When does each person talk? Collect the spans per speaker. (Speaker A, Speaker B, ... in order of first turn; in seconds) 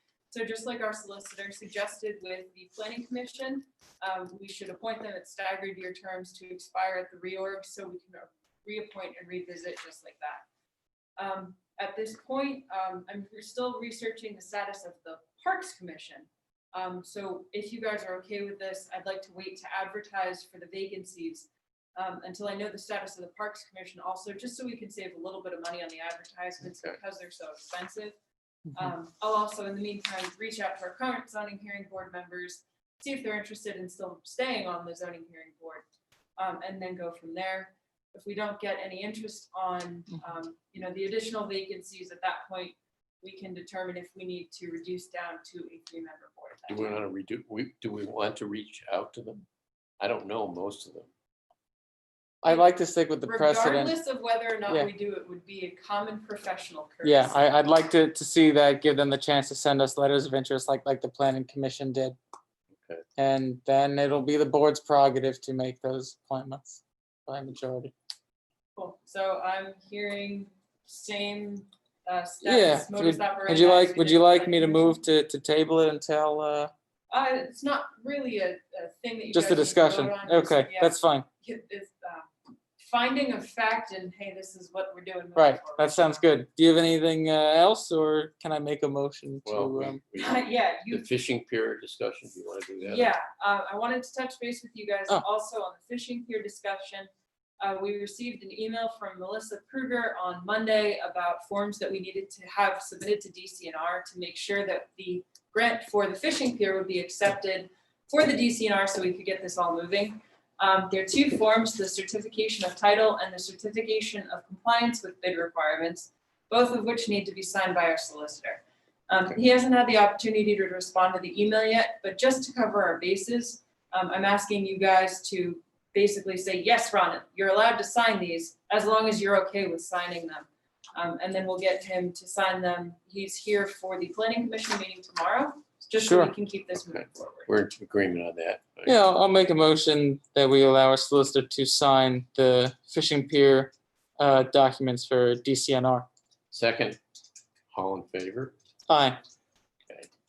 Speaker A: 0.3-10.4, 11.2-28.2, 28.7-35.8, 36.4-47.0, 53.2-57.3, 68.8-75.0, 77.1-86.0, 90.1-91.1, 92.8-97.1, 97.6-137.5
Speaker B: 26.6-27.0, 46.7-49.4, 50.0-51.1, 89.5-93.2, 136.9-138.9, 146.5-147.0, 147.7-148.5
Speaker C: 52.4-54.0, 57.0-62.2, 63.2-67.9, 72.4-76.7, 79.3-81.2, 85.3-90.0, 136.0-136.3, 138.9-146.1, 148.9-149.2